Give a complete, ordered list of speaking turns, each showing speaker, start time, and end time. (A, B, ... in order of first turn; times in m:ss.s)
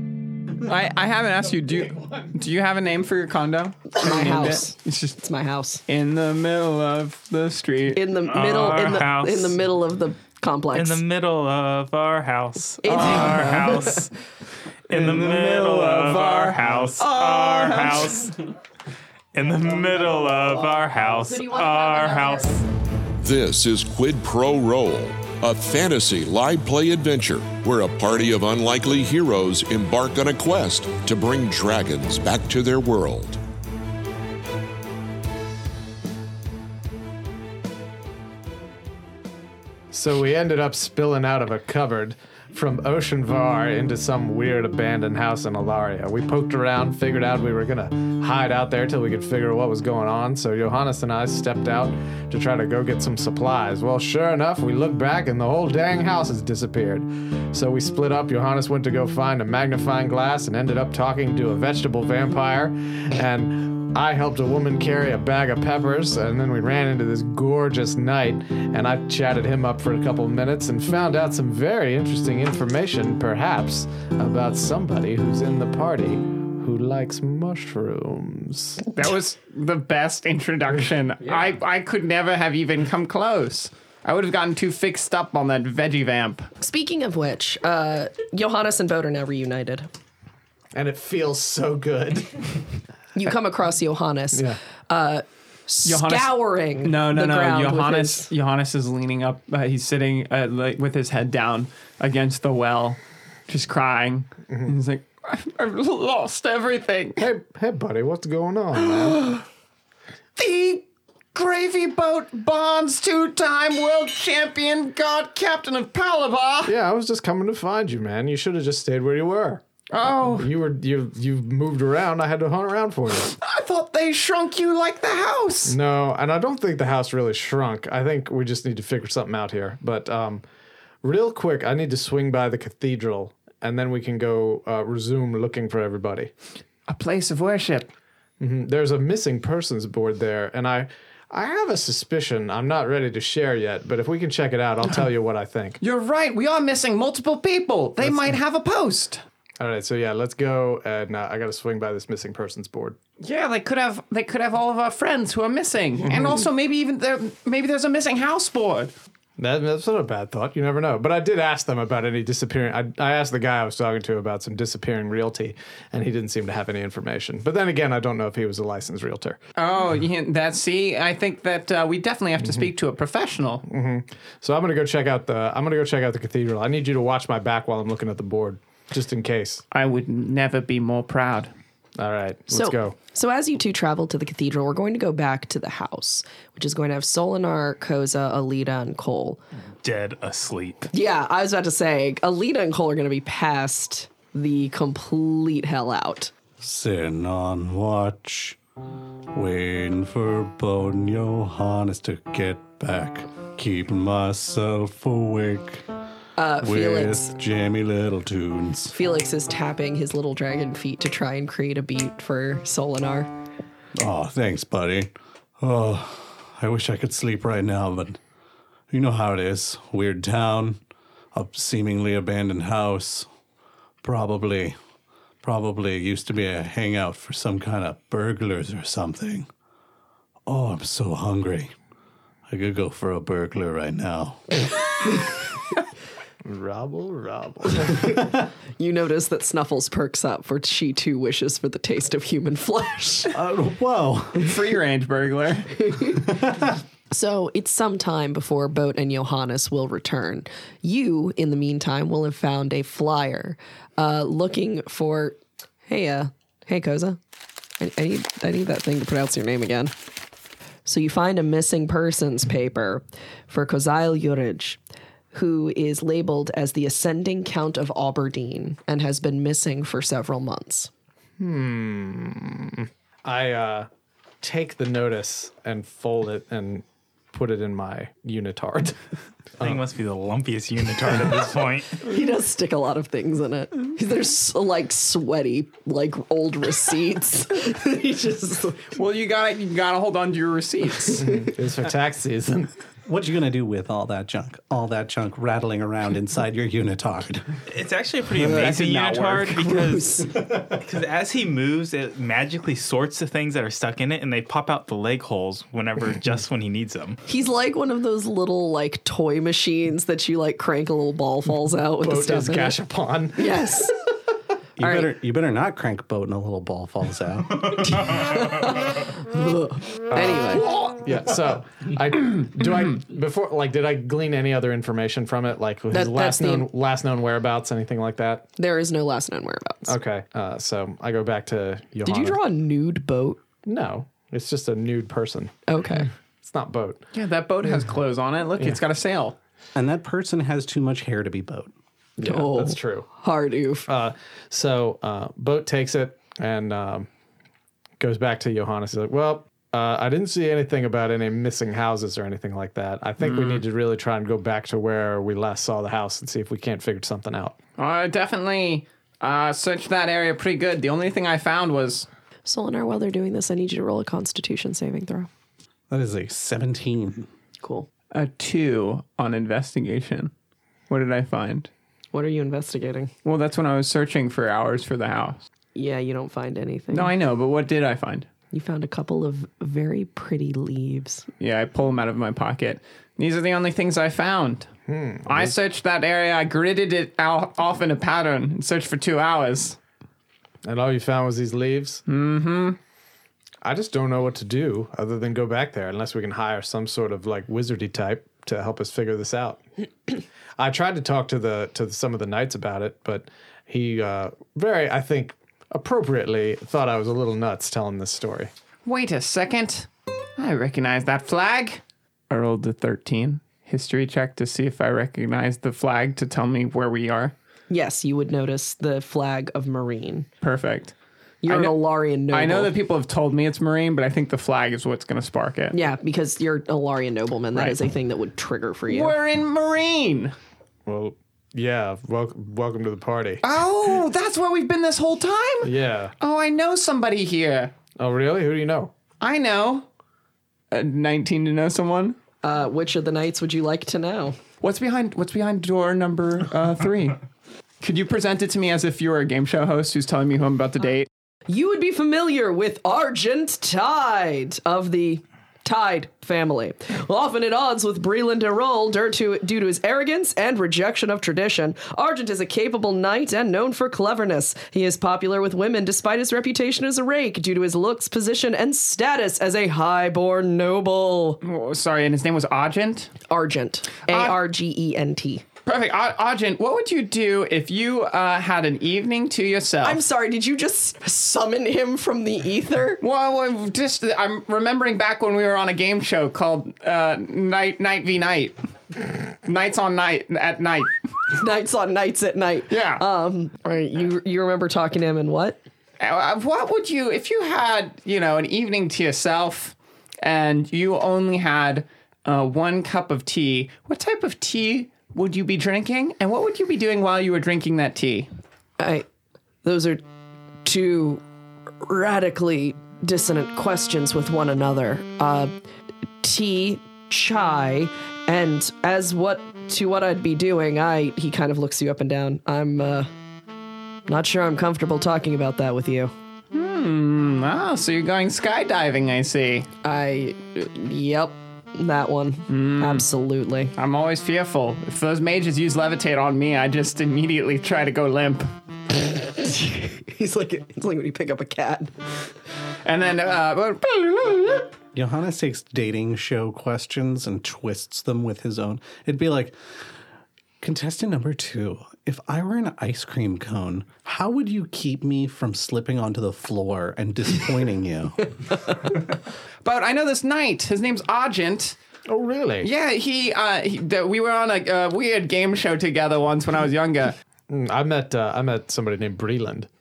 0:00.6-0:05.2 A
0:03.9-0:05.8 B
0:05.9-0:08.0 A
0:07.9-0:11.0 B
0:08.2-0:09.6 C
0:10.7-0:14.1 C
0:12.8-0:14.0 B
0:12.9-0:13.6 A
0:14.9-0:18.4 C
0:14.9-0:18.3 A
0:17.6-0:17.9 B
0:19.3-0:22.6 C
0:21.2-0:22.6 B
0:23.2-0:33.4 D
0:39.9-1:18.8 E
1:18.9-1:26.5 A
1:26.6-1:29.9 B
1:30.7-1:32.6 E
1:33.2-1:38.3 B
1:34.3-1:34.6 E
1:35.8-1:47.2 A
1:47.2-1:49.3 E
1:49.0-1:49.4 A
1:50.4-1:56.7 A
1:56.7-2:03.3 E
1:59.9-2:00.5 A
2:03.3-2:05.8 A
2:05.7-2:10.4 E
2:11.0-2:16.3 E
2:16.9-2:17.9 A
2:18.4-2:25.8 E
2:25.8-2:29.2 A
2:29.6-2:33.0 E
2:33.2-2:38.9 A
2:36.1-2:36.3 E
2:39.4-2:49.4 E
2:49.6-2:53.6 A
2:52.4-2:52.7 E
2:53.7-2:59.6 E
2:59.7-3:01.5 A
3:02.0-3:03.0 E
3:02.5-3:09.4 B
3:09.8-3:10.9 C
3:10.9-3:16.3 B
3:16.6-3:18.6 F
3:19.3-3:25.8 F
3:26.4-3:27.3 B
3:26.6-3:28.9 F
3:28.9-3:33.3 B
3:34.0-3:38.2 F
3:38.9-3:40.8 F
3:41.3-3:43.3 F
3:44.0-3:44.8 F
3:45.4-3:49.5 F
3:50.5-3:51.7 F
3:52.5-3:54.6 F
3:56.4-3:58.2 E
3:58.8-4:03.4 B
4:03.3-4:04.6 F
4:04.4-4:05.8 A
4:05.9-4:06.2 B
4:06.2-4:06.7 F
4:07.1-4:17.2 B
4:17.8-4:19.9 B
4:20.8-4:24.8 B
4:25.3-4:30.9 B
4:31.4-4:33.9 E
4:34.4-4:39.0 E
4:39.6-4:42.0 C
4:42.0-4:49.0 B
4:49.0-4:51.2 A
4:51.2-4:52.7 E
4:53.1-4:57.6 F
4:57.7-5:07.2 C
4:58.4-5:00.3 B
4:58.7-4:59.4 A
5:07.3-5:12.8 B
5:11.9-5:13.9 E
5:13.4-5:14.0 B
5:14.8-5:17.8 F
5:14.8-5:15.1 B
5:17.9-5:20.7 B
5:20.1-5:28.5 E
5:25.9-5:26.7 B
5:28.6-5:30.0 B
5:29.9-5:32.4 E
5:32.0-5:33.4 B
5:33.6-5:35.5 E
5:35.7-5:36.1 B
5:36.4-5:37.0 E
5:37.1-5:39.4 A
5:39.8-5:41.7 F
5:42.2-5:43.1 E
5:42.2-5:43.9 B
5:43.9-5:47.1 E
5:48.0-5:57.6 E
5:53.2-5:53.6 A
5:57.8-6:02.1 A
6:02.5-6:05.3 B
6:05.9-6:07.3 F
6:07.6-6:07.9 B
6:08.1-6:10.3 A
6:10.9-6:11.7 A
6:12.1-6:13.1 B
6:13.2-6:15.4 A
6:15.8-6:17.1 B
6:16.9-6:18.3 A
6:18.5-6:21.2 B
6:21.4-6:24.7 A
6:24.9-6:25.6 E
6:25.3-6:29.8 A
6:30.6-6:32.0 E
6:32.1-6:32.8 A
6:33.6-6:39.6 E
6:40.6-6:48.5 E
6:48.8-6:57.3 A
6:57.7-7:00.3 B
7:00.4-7:01.0 A
7:01.4-7:02.7 B
7:01.5-7:05.8 A
7:05.7-7:09.1 B
7:08.9-7:10.4 A
7:10.9-7:13.4 E
7:13.4-7:17.7 A
7:15.6-7:16.1 E
7:18.0-7:18.9 E
7:19.2-7:19.9 A
7:20.7-7:22.2 A
7:22.4-7:24.4 B
7:24.6-7:27.2 A
7:27.8-7:31.1 A
7:31.5-7:51.4 B
7:51.4-7:53.1 A
7:53.3-7:55.4 B
7:54.1-7:54.4 A
7:55.7-8:00.0 A
7:59.8-8:03.0 B
8:03.0-8:08.6 A
8:09.4-8:10.9 A
8:11.3-8:15.6 B
8:12.7-8:13.0 A
8:16.0-8:28.3 A
8:28.8-8:29.1 B
8:29.6-8:30.0 B
8:30.6-8:31.2 B
8:31.8-8:35.5 B
8:36.2-8:43.1 B
8:44.1-8:46.1 B
8:46.5-8:49.7 A
8:49.8-8:53.7 B
8:52.5-8:53.1 A
8:53.8-8:58.5 A
8:59.2-9:01.9 B
9:02.8-9:04.7 A
9:04.9-9:09.6 F
9:10.6-9:18.4 F
9:19.6-9:21.8 A
9:22.1-9:22.7 E
9:22.6-9:27.2 A
9:27.5-9:29.7 E